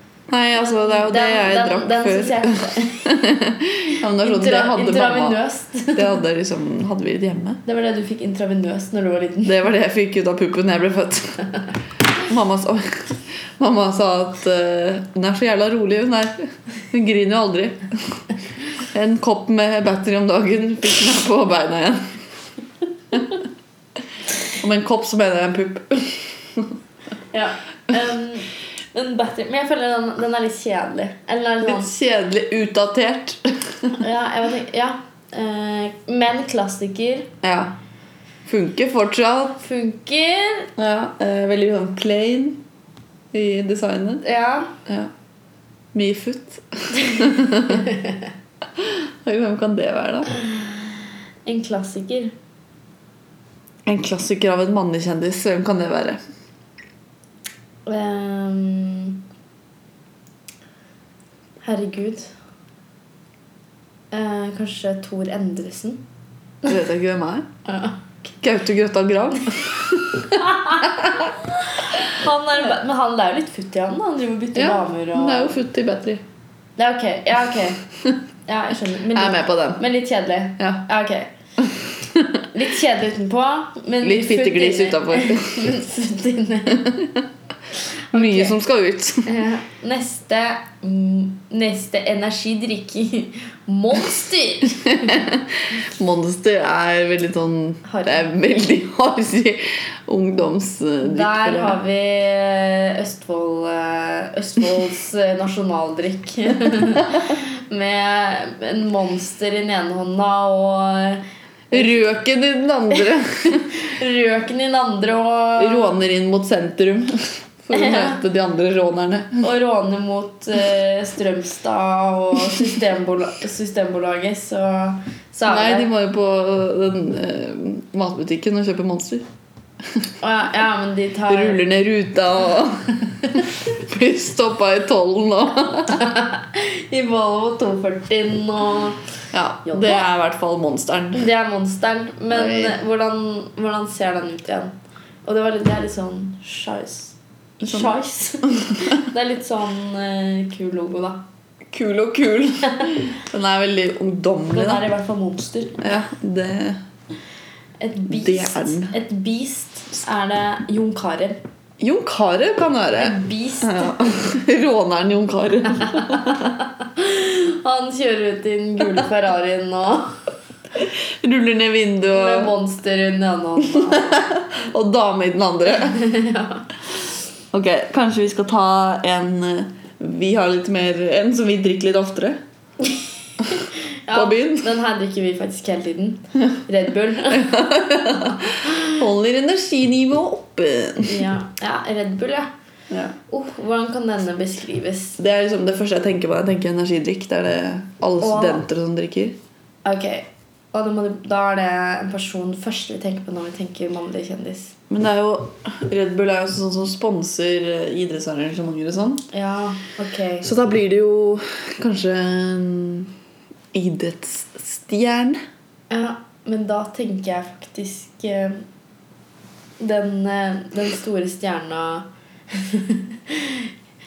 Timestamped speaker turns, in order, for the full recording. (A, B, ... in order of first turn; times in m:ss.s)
0:00.3-0:05.4 A
0:00.6-0:03.1 B
0:04.2-0:06.2 B
0:05.9-0:07.6 A
0:07.6-0:09.6 B
0:09.4-0:11.4 A
0:12.2-0:18.2 A
0:18.8-0:22.0 A
0:23.1-0:23.4 A
0:24.6-0:26.8 A
0:27.3-0:31.9 B
0:31.6-0:34.0 A
0:34.0-0:37.3 B
0:37.4-0:37.8 A
0:38.5-0:39.6 A
0:39.6-0:40.7 B
0:40.8-0:42.6 A
0:43.3-0:44.2 A
0:44.2-0:44.7 B
0:44.9-0:45.1 A
0:45.9-0:47.9 A
0:47.7-0:48.2 B
0:48.8-0:50.3 A
0:50.4-0:50.9 B
0:51.5-0:52.3 B
0:53.9-0:56.2 A
0:57.9-0:59.2 B
1:01.6-1:02.3 B
1:04.1-1:06.0 B
1:06.6-1:07.5 A
1:07.7-1:08.0 B
1:08.4-1:11.3 A
1:10.4-1:15.6 B
1:14.6-1:16.2 A
1:16.8-1:17.9 B
1:18.5-1:21.3 B
1:19.1-1:19.8 A
1:20.6-1:20.8 A
1:22.2-1:22.4 A
1:22.5-1:27.0 B
1:24.0-1:25.7 A
1:26.7-1:27.2 A
1:28.1-1:28.6 B
1:28.1-1:29.3 A
1:29.2-1:35.2 B
1:34.8-1:41.8 A
1:37.8-1:38.3 B
1:41.0-1:52.1 B
1:51.7-1:53.7 A
1:53.5-1:56.0 B
1:55.6-1:59.5 A
1:57.7-1:58.2 B
1:59.4-2:05.9 B
2:05.5-2:09.2 A
2:10.2-2:11.6 B
2:11.3-2:16.1 A
2:15.9-2:19.0 B
2:19.3-2:21.3 A
2:19.7-2:20.0 B
2:21.1-2:24.7 B
2:22.3-2:22.8 A
2:25.2-2:31.2 B
2:27.6-2:28.0 A
2:28.5-2:28.9 A
2:31.7-2:34.8 A
2:34.5-2:35.8 B
2:35.8-2:36.8 A
2:37.8-2:41.4 B
2:38.1-2:39.0 A
2:41.8-2:46.6 A
2:43.0-2:44.2 B
2:45.9-2:50.1 B
2:50.8-2:52.5 A
2:52.1-2:54.3 B
2:53.6-2:56.0 A
2:55.8-2:56.7 B
2:57.5-3:02.4 A
3:03.5-3:07.5 B
3:04.1-3:04.7 A
3:07.3-3:11.2 A
3:08.5-3:09.0 B
3:11.1-3:12.5 B
3:12.9-3:13.2 A
3:13.3-3:15.2 B
3:15.2-3:19.4 A
3:18.2-3:18.6 B
3:19.8-3:24.8 B
3:24.9-3:29.3 A
3:29.3-3:30.5 B
3:30.4-3:33.1 A
3:33.7-3:35.4 A
3:35.9-3:38.6 B
3:39.8-3:43.7 B